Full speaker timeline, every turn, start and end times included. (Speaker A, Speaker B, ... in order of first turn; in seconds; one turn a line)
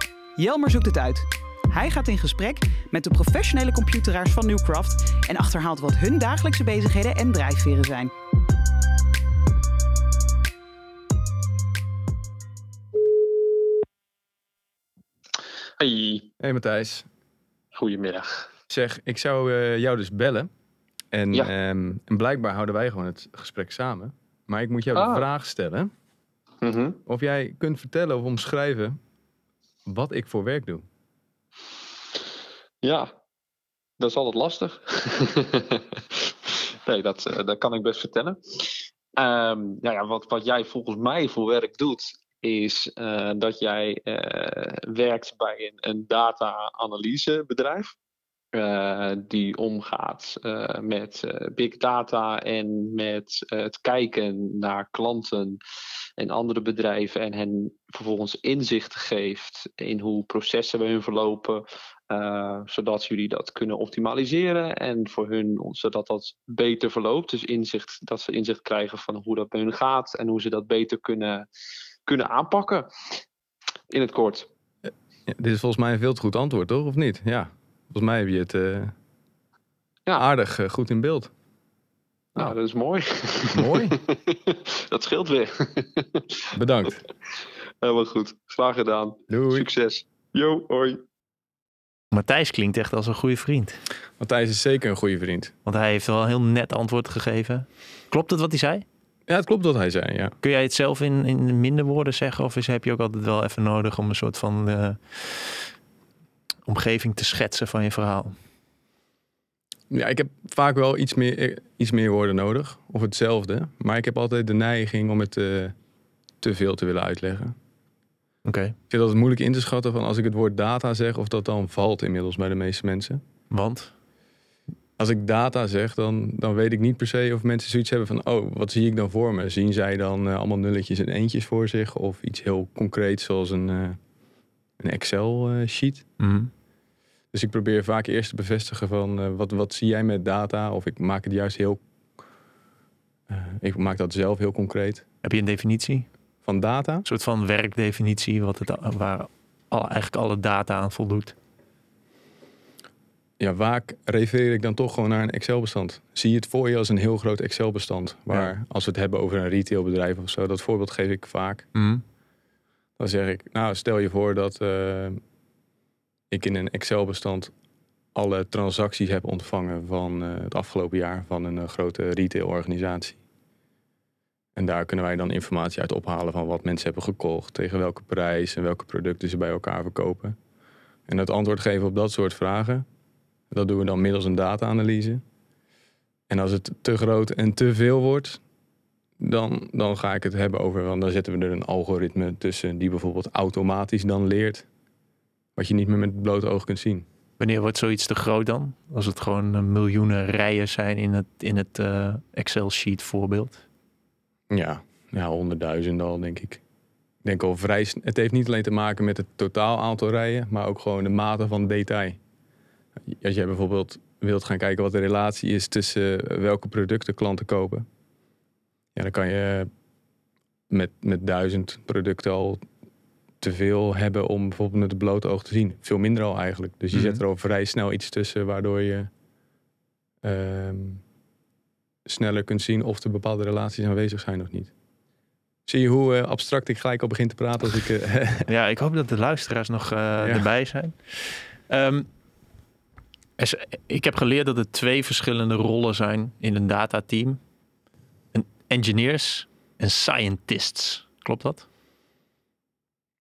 Speaker A: 0.4-8.1
Speaker B: 15.8-16.3
Speaker C: 16.4-17.1
Speaker B: 17.8-18.3
Speaker C: 18.7-20.5
Speaker C: 21.1-25.9
Speaker B: 24.9-25.2
Speaker B: 26.6-27.0
Speaker C: 27.1-29.0
Speaker C: 29.9-30.9
Speaker B: 32.8-33.1
Speaker B: 34.0-48.0
Speaker B: 48.5-55.6
Speaker B: 56.2-71.5
Speaker B: 72.1-72.9
Speaker B: 73.9-74.5
Speaker C: 75.3-78.9
Speaker C: 80.2-81.3
Speaker B: 82.4-86.5
Speaker C: 83.5-84.0
Speaker C: 86.5-87.0
Speaker B: 87.8-91.0
Speaker C: 89.3-89.7
Speaker D: 92.1-93.8
Speaker C: 94.2-95.5
Speaker D: 95.7-98.8
Speaker C: 99.3-100.3
Speaker D: 100.4-105.7
Speaker D: 106.7-108.4
Speaker C: 109.9-115.7
Speaker C: 116.4-117.5
Speaker D: 118.5-118.8
Speaker C: 118.9-123.2
Speaker D: 123.5-123.9
Speaker C: 125.0-134.0
Speaker C: 134.8-136.1
Speaker D: 136.2-136.5
Speaker C: 137.3-141.8
Speaker C: 143.3-145.1
Speaker D: 145.2-146.1
Speaker C: 146.4-147.1
Speaker D: 147.1-151.3
Speaker C: 153.4-161.7
Speaker D: 161.8-162.0
Speaker C: 163.0-165.2
Speaker C: 166.3-167.5
Speaker C: 168.2-173.2
Speaker C: 174.6-180.4
Speaker C: 181.1-182.8
Speaker C: 183.5-185.2
Speaker C: 186.3-188.4
Speaker C: 189.2-194.7
Speaker C: 195.6-197.1
Speaker D: 197.4-203.6
Speaker C: 204.5-206.6
Speaker C: 207.2-212.2
Speaker C: 213.1-217.9
Speaker C: 218.9-219.7
Speaker C: 220.7-222.7
Speaker C: 223.4-229.1
Speaker D: 226.9-227.2
Speaker C: 230.2-231.0
Speaker C: 232.1-234.7
Speaker C: 235.7-238.5
Speaker D: 238.5-242.1
Speaker C: 240.2-240.5
Speaker D: 243.4-247.4
Speaker D: 248.3-251.7